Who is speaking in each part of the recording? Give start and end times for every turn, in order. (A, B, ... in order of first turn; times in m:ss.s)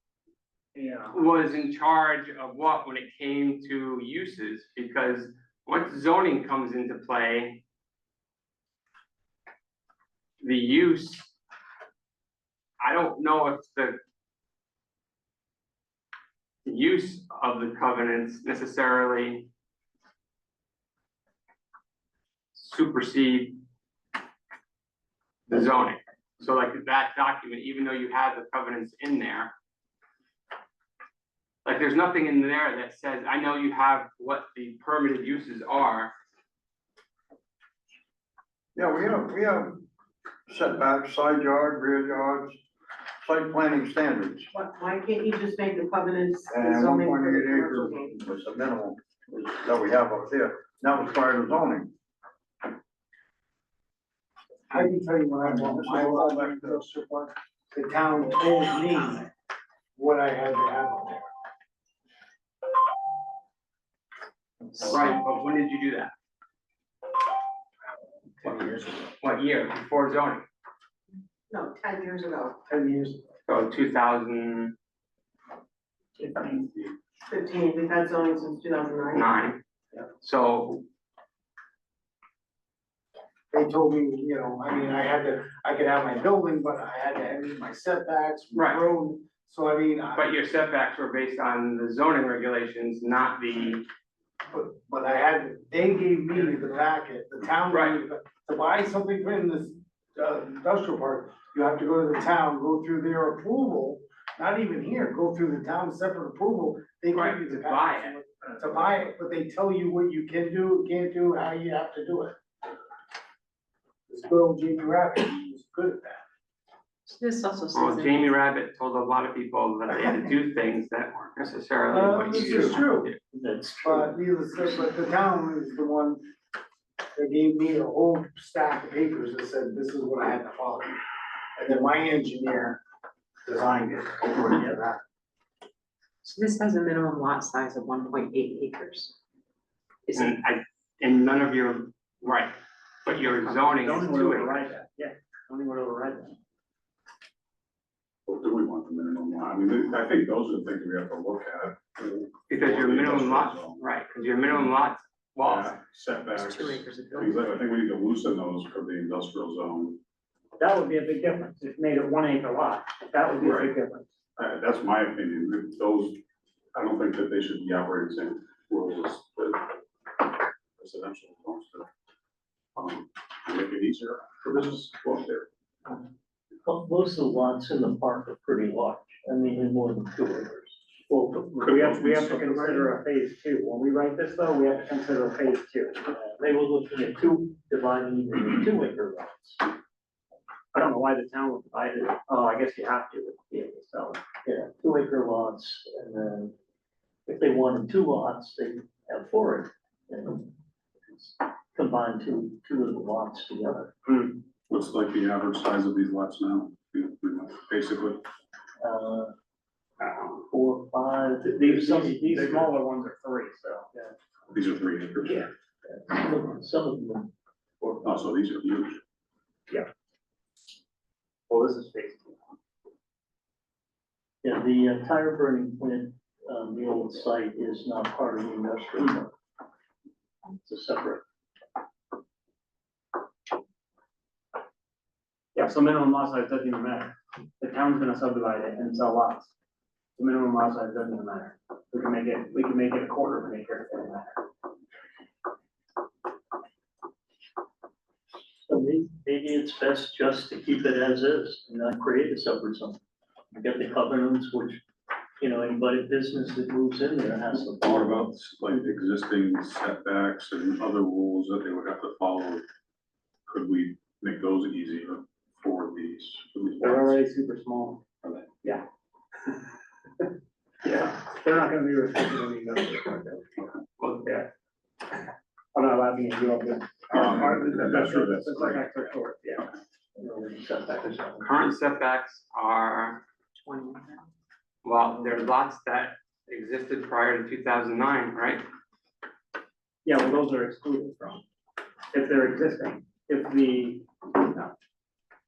0:00.8-0:01.2 A
0:01.1-0:07.6 B
0:10.4-0:11.3 B
0:12.8-0:14.0 B
0:16.6-0:19.5 B
0:22.6-0:23.6 B
0:25.5-0:29.5 B
0:31.6-0:36.1 B
0:38.8-0:39.8 C
0:40.5-0:42.6 C
0:43.2-0:44.5 C
0:44.7-0:46.2 D
0:46.5-0:51.9 C
0:54.7-0:59.3 E
0:55.4-0:56.8 C
1:00.0-1:01.3 E
1:04.8-1:06.1 B
1:08.4-1:09.0 E
1:08.4-1:10.4 B
1:11.6-1:12.4 D
1:12.7-1:13.2 E
1:13.5-1:14.7 B
1:17.6-1:19.0 D
1:19.1-1:19.6 B
1:20.2-1:20.8 B
1:23.5-1:30.3 E
1:28.5-1:28.8 B
1:30.1-1:33.8 B
1:34.5-1:52.4 E
1:37.7-1:38.0 B
1:47.1-1:48.2 B
1:54.1-1:56.2 E
1:57.1-1:58.4 F
1:57.7-2:03.2 B
2:01.9-2:03.1 E
2:03.3-2:04.1 G
2:03.8-2:06.2 E
2:07.2-2:11.0 E
2:11.6-2:12.8 E
2:13.4-2:15.0 E
2:16.2-2:19.2 F
2:20.1-2:22.5 B
2:23.0-2:24.6 B
2:23.6-2:26.4 A
2:28.3-2:33.9 H
2:32.5-2:35.8 B
2:35.4-2:40.0 H
2:36.3-2:37.6 F
2:40.6-2:44.1 A
2:43.4-2:43.8 H
2:44.4-2:46.2 H
2:46.7-2:51.9 H
2:52.8-2:55.5 H
2:56.7-3:00.7 G
3:01.1-3:06.2 A
3:01.3-3:03.0 H
3:06.2-3:09.6 G
3:10.7-3:14.2 A
3:14.5-3:16.5 G
3:17.3-3:20.5 G
3:21.1-3:23.9 G
3:24.1-3:24.4 A
3:24.7-3:28.2 H
3:28.9-3:29.3 G
3:30.6-3:32.6 G
3:31.4-3:34.1 A
3:34.5-3:35.5 H
3:35.9-3:37.2 G
3:38.0-3:39.0 H
3:41.5-3:42.4 A
3:44.8-3:46.0 G
3:46.5-3:49.3 G
3:50.6-3:51.2 G
3:55.6-3:59.5 A
4:00.2-4:04.4 A
4:08.7-4:13.0 G
4:13.5-4:14.7 G
4:15.4-4:18.2 G
4:17.6-4:22.6 H
4:23.5-4:27.2 H
4:26.8-4:28.0 A
4:28.2-4:28.6 H
4:30.8-4:33.7 A
4:34.0-4:34.5 B
4:35.7-4:39.7 A
4:37.1-4:39.2 H
4:41.4-4:43.2 B
4:43.6-4:44.2 F
4:44.8-4:48.6 B
4:50.0-4:51.4 A
4:52.1-4:54.7 A